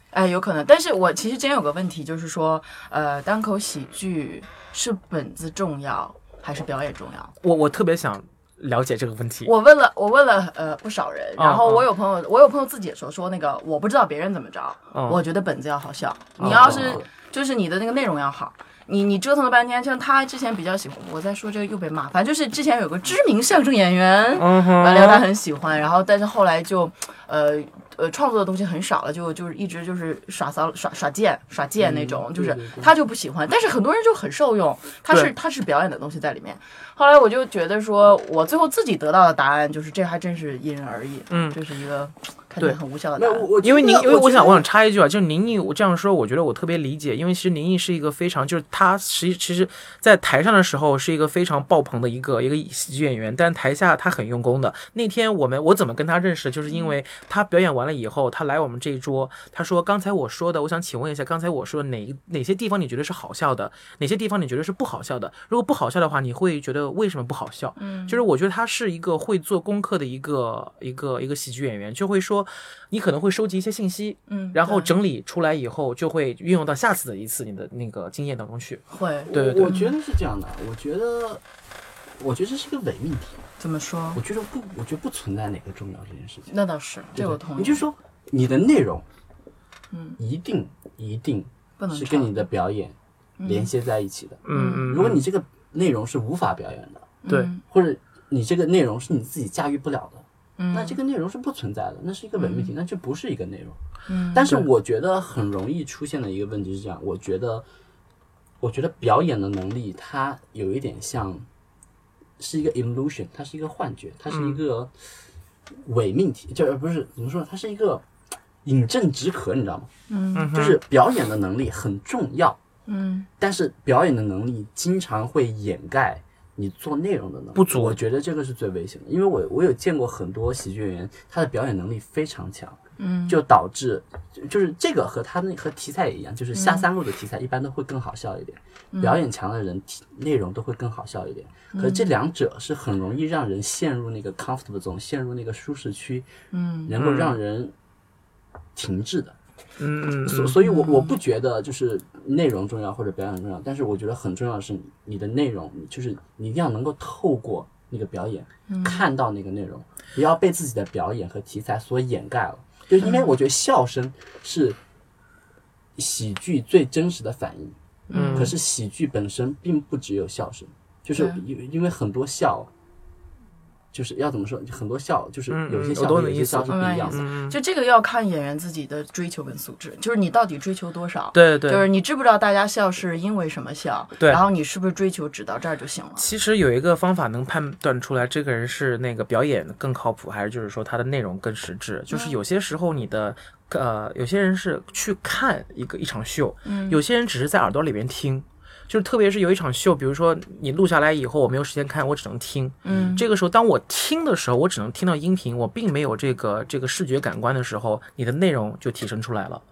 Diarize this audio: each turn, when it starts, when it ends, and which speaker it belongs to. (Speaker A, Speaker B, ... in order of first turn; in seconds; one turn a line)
Speaker A: 0.1-7.3
Speaker B: 7.4-9.5
Speaker A: 9.4-43.5
Speaker B: 11.4-11.9
Speaker B: 14.9-15.2
Speaker B: 16.4-17.0
Speaker C: 16.4-17.1
Speaker B: 24.4-25.3
Speaker C: 31.8-32.9
Speaker B: 41.3-41.6
Speaker C: 43.2-44.7
Speaker B: 43.6-79.8
Speaker A: 56.7-57.0
Speaker A: 67.8-68.2
Speaker A: 74.3-75.0
Speaker A: 78.9-79.9
Speaker C: 79.3-81.4
Speaker C: 82.2-83.5
Speaker A: 83.6-84.2
Speaker C: 84.1-86.5
Speaker A: 86.5-87.8
Speaker C: 87.1-89.0
Speaker A: 89.9-90.2
Speaker C: 90.2-103.8
Speaker A: 91.8-92.5
Speaker A: 93.4-93.7
Speaker B: 94.5-95.2
Speaker A: 94.5-94.9
Speaker A: 97.2-97.6
Speaker A: 100.6-101.0
Speaker A: 102.4-102.7
Speaker A: 104.1-104.7
Speaker C: 104.3-107.7
Speaker C: 108.6-111.5
Speaker C: 112.4-114.9
Speaker B: 114.3-114.6
Speaker C: 115.8-118.0
Speaker C: 118.6-119.9
Speaker A: 120.1-120.5
Speaker B: 120.3-120.8
Speaker C: 120.5-122.6
Speaker A: 122.9-123.3
Speaker C: 123.4-146.3
Speaker B: 127.5-128.0
Speaker A: 133.0-133.4
Speaker A: 136.6-136.9
Speaker A: 138.9-139.2
Speaker A: 141.7-142.1
Speaker A: 146.5-146.9
Speaker C: 146.9-147.7
Speaker B: 147.0-147.4
Speaker C: 148.8-149.3
Speaker B: 149.8-150.6
Speaker C: 150.2-164.8
Speaker A: 150.6-151.2
Speaker A: 158.7-159.0
Speaker A: 163.0-163.3
Speaker C: 166.0-167.8
Speaker A: 168.1-168.5
Speaker B: 168.1-168.6
Speaker C: 168.3-172.7
Speaker A: 171.2-171.4
Speaker C: 173.9-177.3
Speaker B: 175.5-177.6
Speaker A: 176.7-186.3
Speaker B: 181.3-181.9
Speaker B: 186.2-209.6
Speaker A: 192.1-192.4
Speaker A: 196.7-197.0
Speaker A: 202.8-203.2
Speaker C: 202.9-203.2